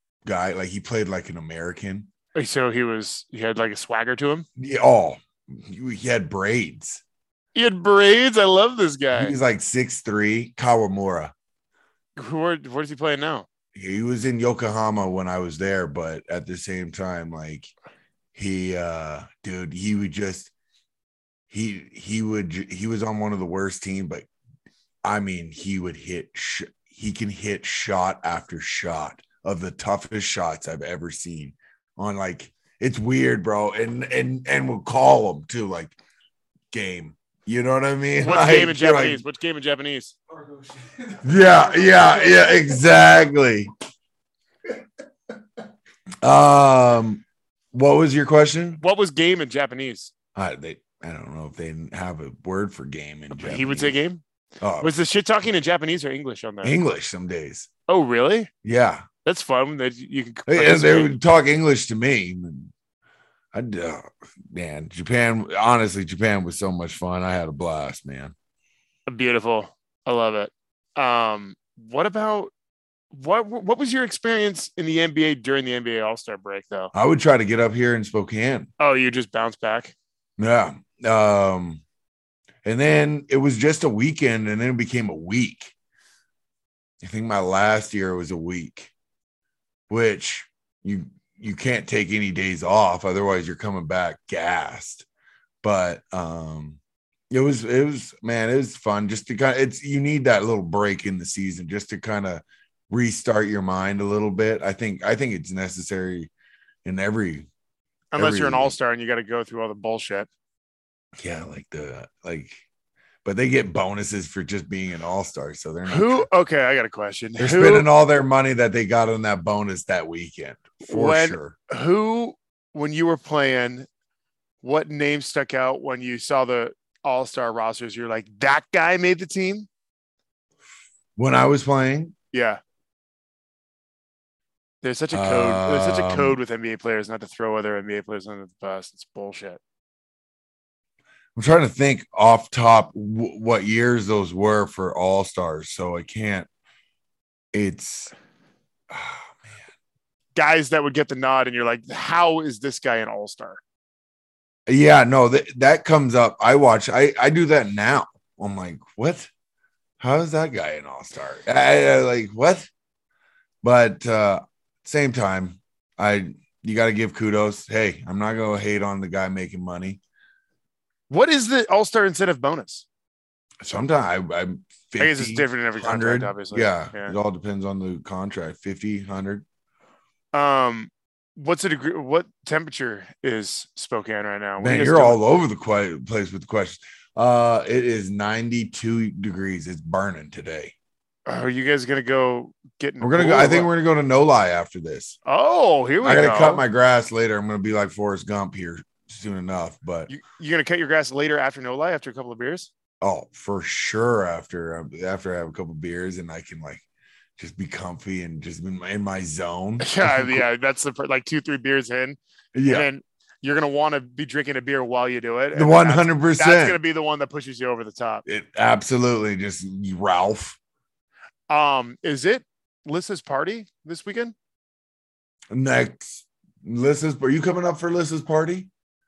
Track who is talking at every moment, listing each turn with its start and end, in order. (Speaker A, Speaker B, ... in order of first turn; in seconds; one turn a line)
Speaker A: 0.2-2.1
Speaker B: 2.4-4.5
Speaker A: 4.6-7.0
Speaker B: 7.5-9.3
Speaker A: 9.1-11.3
Speaker B: 12.2-13.5
Speaker A: 13.7-17.7
Speaker A: 18.4-20.5
Speaker A: 21.5-24.3
Speaker A: 25.0-36.0
Speaker A: 36.7-39.2
Speaker B: 38.2-40.1
Speaker C: 40.3-42.9
Speaker A: 41.2-43.7
Speaker A: 46.2-47.2
Speaker A: 47.7-48.8
Speaker B: 48.8-50.1
Speaker A: 50.4-54.0
Speaker B: 53.4-54.2
Speaker A: 54.6-54.9
Speaker B: 54.8-56.8
Speaker A: 56.6-57.7
Speaker B: 57.9-58.5
Speaker A: 58.6-59.1
Speaker B: 59.2-61.1
Speaker A: 60.5-62.7
Speaker A: 63.5-68.3
Speaker B: 69.1-72.5
Speaker B: 73.1-76.9
Speaker A: 76.9-78.7
Speaker B: 78.8-79.9
Speaker A: 80.4-81.8
Speaker A: 82.6-85.7
Speaker A: 87.0-88.9
Speaker A: 89.9-95.1
Speaker A: 95.6-96.8
Speaker A: 97.3-106.3
Speaker A: 106.8-107.5
Speaker B: 108.1-110.3
Speaker A: 108.1-108.7
Speaker A: 111.2-112.6
Speaker A: 113.2-116.3
Speaker B: 115.9-117.9
Speaker A: 117.4-121.6
Speaker B: 120.9-123.9
Speaker B: 124.6-129.7
Speaker A: 131.2-132.1
Speaker B: 132.3-132.6
Speaker B: 134.8-139.6
Speaker A: 135.1-136.4
Speaker A: 141.4-146.5
Speaker A: 147.5-148.1
Speaker A: 148.9-149.6
Speaker B: 150.4-153.6
Speaker A: 154.7-159.3
Speaker A: 160.0-162.7
Speaker A: 163.6-170.0
Speaker B: 171.1-172.8
Speaker A: 173.6-179.4
Speaker B: 175.0-177.2
Speaker B: 180.3-185.2
Speaker A: 184.6-190.7
Speaker B: 191.2-193.7
Speaker A: 193.0-195.2
Speaker B: 195.2-196.6
Speaker A: 196.0-200.1
Speaker B: 200.1-202.7
Speaker A: 203.0-206.8
Speaker A: 207.4-210.4
Speaker B: 209.8-218.2
Speaker A: 212.5-212.9
Speaker A: 215.5-216.8
Speaker A: 218.2-220.6
Speaker B: 221.5-224.3
Speaker A: 225.5-228.7